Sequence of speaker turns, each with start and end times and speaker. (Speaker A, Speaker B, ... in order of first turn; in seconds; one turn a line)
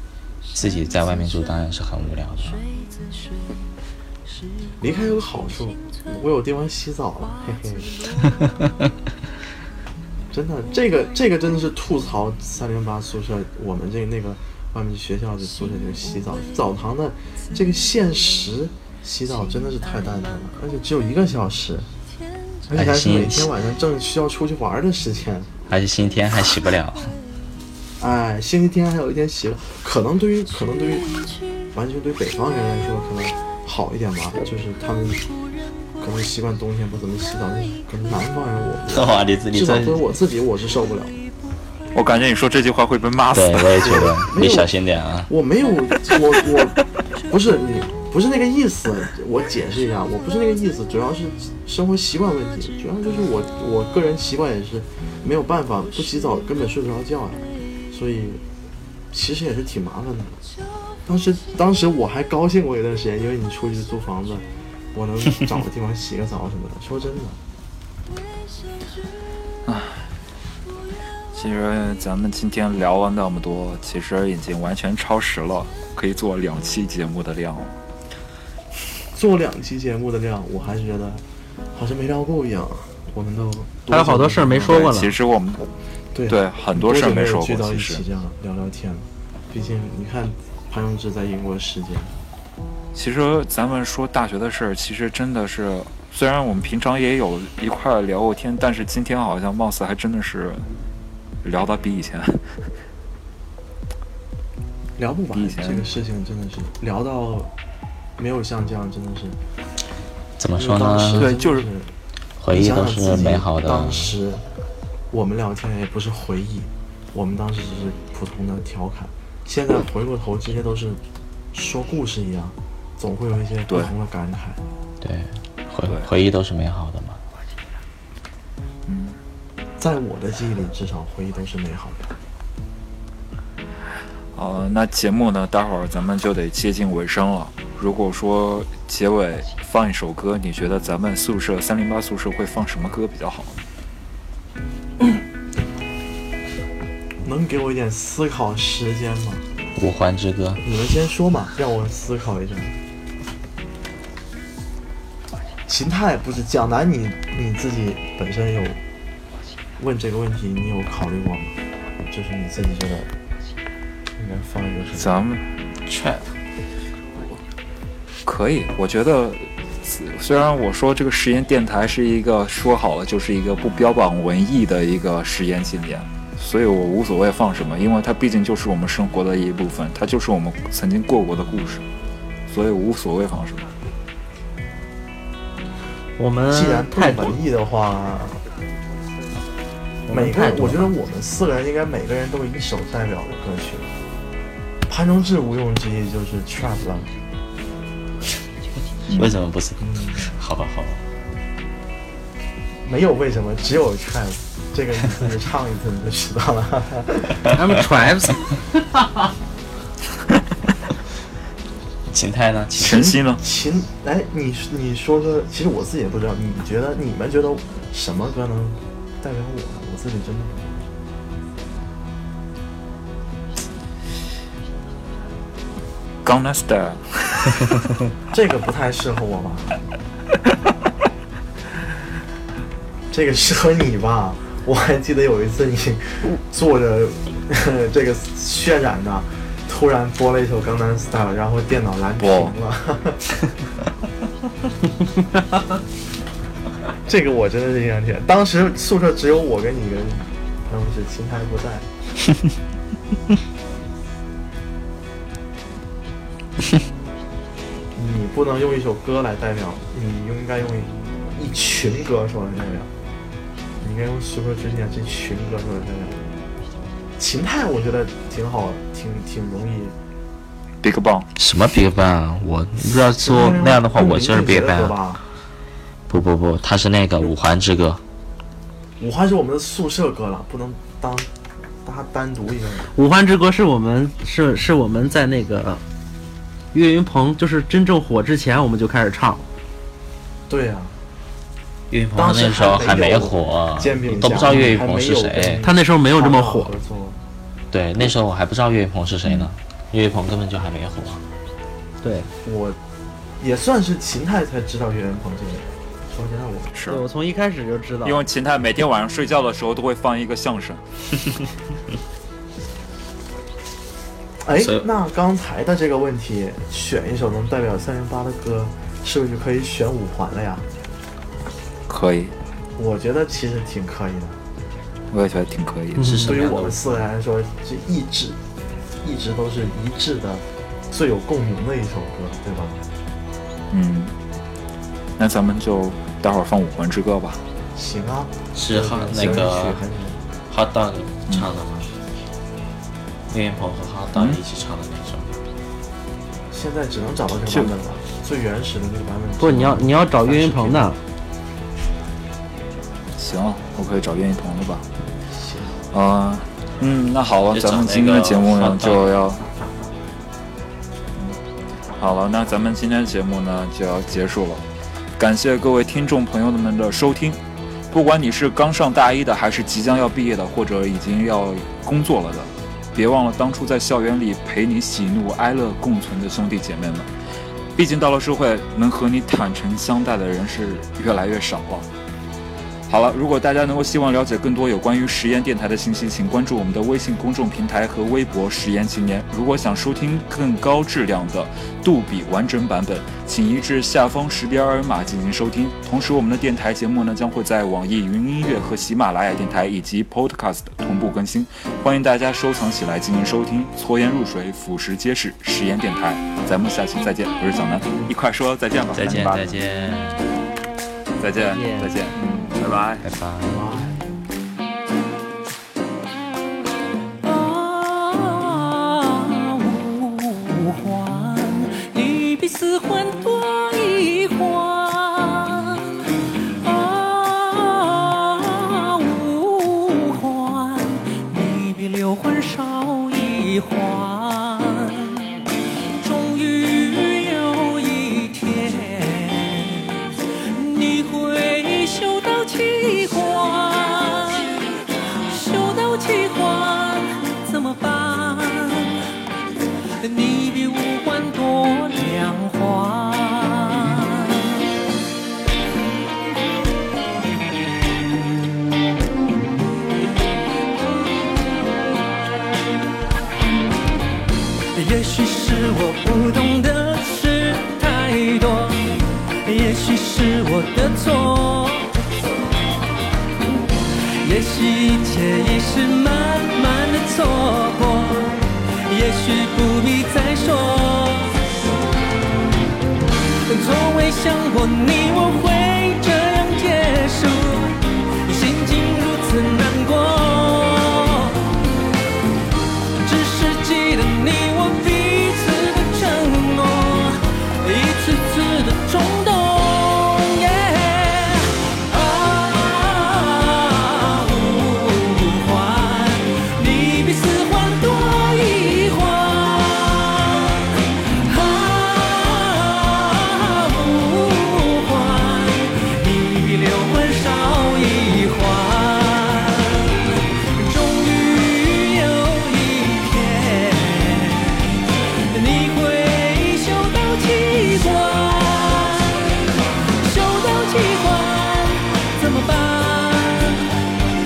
Speaker A: 0.5-2.6
Speaker B: 4.8-8.1
Speaker B: 10.3-21.9
Speaker A: 22.7-23.5
Speaker B: 22.7-25.5
Speaker A: 25.7-27.2
Speaker B: 28.0-31.1
Speaker B: 31.7-35.2
Speaker B: 36.0-41.1
Speaker A: 38.9-40.1
Speaker C: 41.9-43.9
Speaker A: 43.3-45.3
Speaker B: 43.8-44.7
Speaker B: 45.3-58.4
Speaker B: 59.1-60.4
Speaker B: 61.0-67.4
Speaker C: 69.7-70.1
Speaker C: 71.3-77.7
Speaker B: 79.1-81.2
Speaker B: 81.7-84.9
Speaker D: 83.9-85.1
Speaker C: 84.9-85.7
Speaker B: 86.1-92.1
Speaker C: 86.3-88.0
Speaker C: 93.0-100.7
Speaker C: 101.4-102.4
Speaker B: 105.0-107.5
Speaker C: 105.3-105.9
Speaker B: 108.2-109.4
Speaker A: 110.4-111.3
Speaker B: 110.5-111.9
Speaker C: 111.2-111.7
Speaker A: 112.4-114.1
Speaker B: 112.5-114.4
Speaker B: 115.1-121.0
Speaker B: 121.5-124.6
Speaker A: 125.0-127.2
Speaker C: 128.9-129.2
Speaker B: 129.8-132.1
Speaker C: 134.3-143.6
Speaker B: 147.2-149.4
Speaker A: 149.8-150.6
Speaker B: 150.6-152.8
Speaker B: 155.7-158.8
Speaker B: 159.8-161.6
Speaker B: 162.1-163.1
Speaker B: 164.2-165.2
Speaker C: 164.9-165.5
Speaker A: 165.8-166.3
Speaker C: 168.2-181.8
Speaker C: 182.5-183.7
Speaker D: 186.2-187.4
Speaker B: 186.5-188.4
Speaker D: 190.1-190.9
Speaker B: 190.1-193.9
Speaker B: 194.9-197.1
Speaker C: 199.1-199.3
Speaker A: 199.1-201.1
Speaker B: 199.8-200.3
Speaker B: 202.8-207.5
Speaker D: 207.5-209.3
Speaker A: 212.1-213.1
Speaker B: 212.8-220.8
Speaker C: 212.8-213.4
Speaker C: 226.2-227.6
Speaker B: 228.3-229.8
Speaker B: 233.1-243.2
Speaker C: 242.2-242.5
Speaker B: 247.1-251.9
Speaker B: 257.9-262.9
Speaker B: 263.8-266.3
Speaker B: 267.2-269.9
Speaker C: 270.8-271.3
Speaker A: 271.3-275.0
Speaker B: 272.9-275.2
Speaker A: 276.1-278.0
Speaker B: 279.0-281.3
Speaker B: 281.8-282.9
Speaker D: 282.9-285.8
Speaker D: 286.7-289.4
Speaker B: 290.5-291.0
Speaker A: 291.9-295.6
Speaker B: 292.1-297.2
Speaker D: 295.6-296.7
Speaker A: 297.7-301.2
Speaker C: 299.2-299.5
Speaker D: 302.0-302.3
Speaker B: 302.4-302.8
Speaker B: 303.4-306.7
Speaker C: 306.7-307.0
Speaker D: 306.9-308.2
Speaker C: 308.0-310.8
Speaker B: 314.4-320.7
Speaker A: 314.6-314.9
Speaker C: 321.9-322.3
Speaker B: 322.8-324.4
Speaker C: 325.1-326.2
Speaker D: 326.0-326.4
Speaker A: 326.0-326.8
Speaker B: 326.2-328.4
Speaker B: 329.0-332.8
Speaker C: 333.7-334.1
Speaker C: 335.2-337.4
Speaker B: 337.8-340.2
Speaker A: 338.5-339.8
Speaker A: 340.5-342.0
Speaker A: 343.3-345.4
Speaker C: 344.1-344.4
Speaker B: 346.5-350.9
Speaker C: 347.4-347.7
Speaker D: 349.4-351.0
Speaker C: 353.2-354.8
Speaker B: 355.2-355.8
Speaker C: 355.9-359.4
Speaker A: 357.5-359.1
Speaker C: 362.0-364.7
Speaker C: 365.2-367.4
Speaker C: 367.9-377.1
Speaker C: 377.8-381.9
Speaker C: 382.9-409.5
Speaker A: 408.9-410.3
Speaker C: 411.2-413.0
Speaker A: 413.0-413.9
Speaker E: 417.2-449.0
Speaker E: 450.0-454.6
Speaker E: 464.7-472.0
Speaker E: 474.2-481.4
Speaker E: 483.4-491.5
Speaker E: 492.9-524.7
Speaker E: 525.3-529.3
Speaker E: 529.8-533.7